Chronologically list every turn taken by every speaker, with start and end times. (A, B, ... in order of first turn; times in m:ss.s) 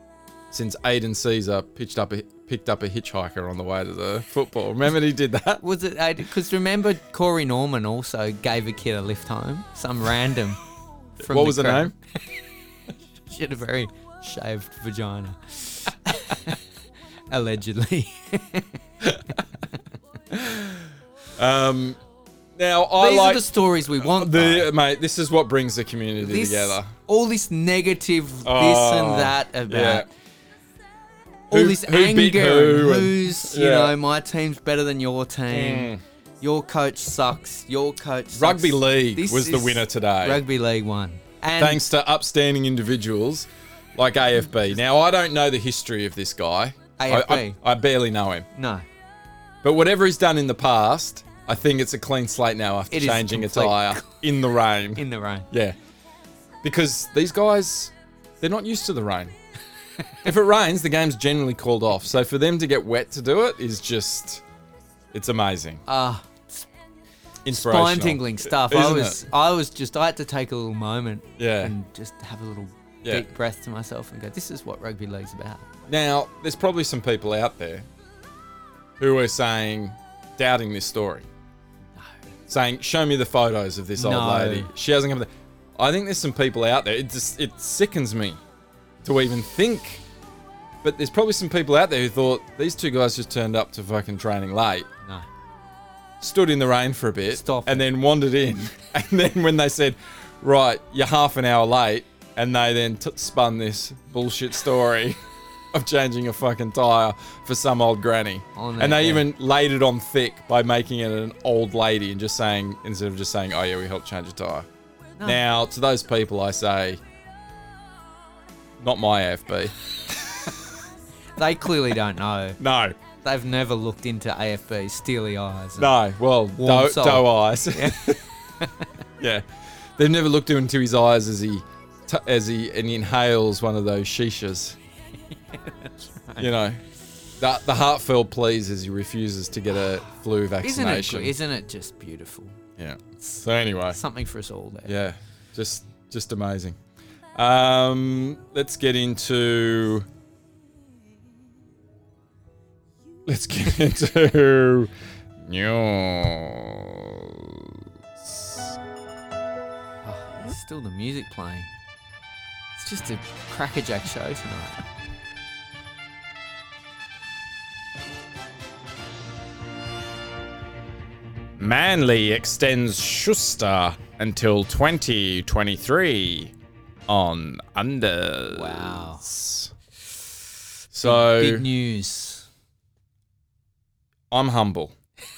0:00.5-0:05.6 A
0:05.6-0:10.6 B
0:11.2-0:11.9 B
0:11.2-0:11.9 A
0:13.2-0:16.6 B
0:17.3-0:18.8 B
0:20.3-0:22.0 A
0:22.6-0:26.9 A
0:23.0-0:24.7 B
0:26.2-0:30.1 B
0:28.4-0:30.1 A
0:31.5-0:41.8 B
0:31.5-0:33.9 A
0:35.5-0:36.0 A
0:38.3-0:40.4 A
0:41.6-0:48.5 A
0:47.0-0:47.6 B
0:48.5-0:48.8 B
0:49.6-0:55.8 A
0:52.9-0:54.2 B
0:55.0-0:55.5 B
0:56.6-0:59.3 A
1:00.2-1:04.4 A
1:05.1-1:05.8 A
1:05.8-1:06.7 B
1:07.4-1:09.2 A
1:07.5-1:15.7 B
1:11.4-1:11.7 A
1:15.9-1:17.9 A
1:19.0-1:21.2 A
1:22.5-1:28.4 A
1:24.0-1:24.7 B
1:29.0-1:30.0 A
1:30.8-1:34.9 A
1:36.2-1:45.2 A
1:37.3-1:37.9 B
1:45.7-1:54.7 A
1:48.5-1:49.2 B
1:55.2-1:57.0 A
1:58.8-2:00.6 A
2:01.4-2:02.6 B
2:02.6-2:03.0 A
2:03.2-2:05.9 B
2:05.8-2:08.2 A
2:06.6-2:08.9 B
2:09.2-2:09.4 A
2:10.0-2:14.8 A
2:15.5-2:16.5 B
2:16.4-2:16.8 A
2:17.4-2:21.4 A
2:20.6-2:22.6 B
2:22.8-2:24.0 A
2:23.9-2:24.9 B
2:24.8-2:26.8 A
2:27.3-2:30.1 A
2:33.2-2:38.7 A
2:40.0-2:41.7 B
2:42.8-2:44.8 B
2:51.6-2:56.5 A
2:57.1-2:59.7 A
2:58.5-2:59.2 B
3:00.9-3:01.7 A
3:01.0-3:02.5 B
3:04.3-3:04.9 A